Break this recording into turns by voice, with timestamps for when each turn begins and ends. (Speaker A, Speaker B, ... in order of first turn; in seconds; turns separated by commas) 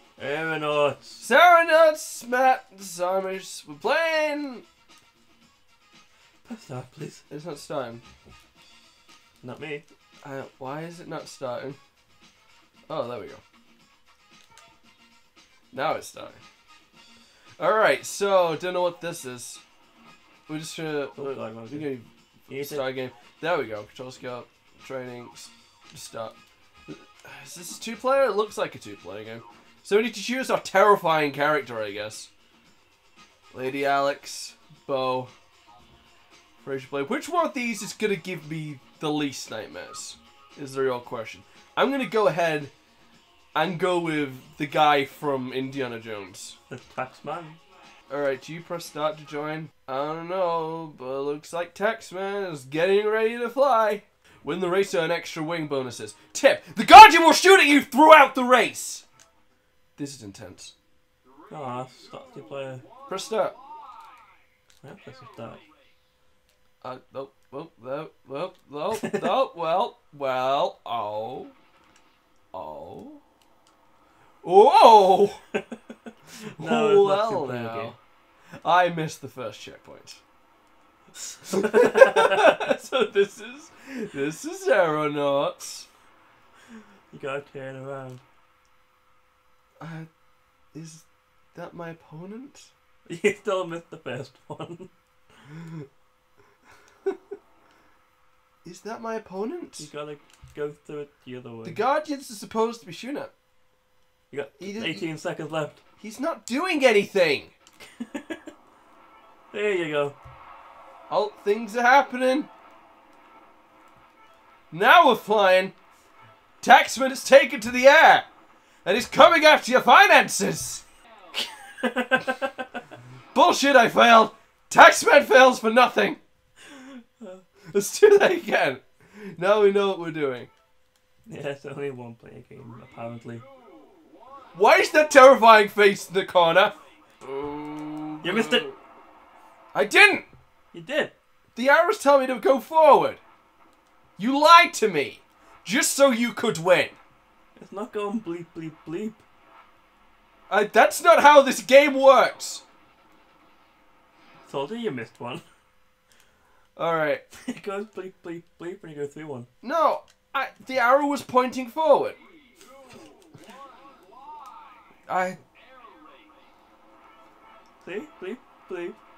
Speaker A: 0.2-1.2, Speaker B: 1.2-4.6, Speaker A: 6.5-7.2, Speaker B: 7.3-8.0, Speaker A: 9.4-9.8, Speaker B: 10.2-11.8, Speaker B: 12.9-13.4, Speaker B: 15.7-16.4, Speaker B: 17.6-19.6, Speaker B: 20.5-26.4, Speaker A: 21.2-21.9, Speaker A: 22.5-22.9, Speaker B: 26.9-32.3, Speaker B: 33.5-35.3, Speaker B: 36.6-42.7, Speaker B: 43.6-46.6, Speaker A: 46.7-47.6, Speaker B: 48.1-59.0, Speaker B: 60.0-60.7, Speaker A: 61.5-62.8, Speaker B: 63.1-63.6, Speaker A: 64.8-65.6, Speaker B: 66.8-71.5, Speaker A: 68.9-69.3, Speaker B: 72.5-73.2, Speaker B: 74.4-75.4, Speaker A: 76.4-77.9, Speaker B: 76.6-78.0, Speaker B: 78.6-80.2, Speaker B: 81.5-85.9, Speaker A: 81.5-82.5, Speaker A: 87.1-88.2, Speaker B: 89.8-90.1, Speaker B: 90.7-92.7, Speaker A: 93.1-94.9, Speaker B: 95.5-95.8, Speaker B: 98.6-99.9, Speaker A: 99.8-101.8, Speaker B: 101.6-103.3, Speaker A: 104.3-105.8, Speaker B: 104.6-105.1, Speaker B: 106.0-107.5, Speaker A: 108.0-108.4, Speaker A: 109.5-110.2, Speaker B: 111.1-112.5, Speaker B: 114.7-115.7, Speaker B: 116.6-118.3, Speaker B: 118.8-120.8, Speaker A: 121.3-122.6, Speaker B: 123.3-126.2, Speaker A: 126.7-127.4, Speaker B: 127.7-130.5, Speaker A: 131.3-133.4, Speaker B: 134.5-138.8, Speaker A: 138.2-138.7, Speaker B: 139.7-140.3, Speaker A: 140.7-141.1, Speaker B: 141.6-143.2, Speaker B: 144.2-147.0, Speaker A: 147.6-149.2, Speaker B: 150.5-152.6, Speaker A: 154.5-155.4, Speaker B: 156.8-157.2, Speaker A: 157.5-159.5, Speaker B: 159.6-162.2, Speaker B: 165.1-165.4, Speaker A: 167.8-169.0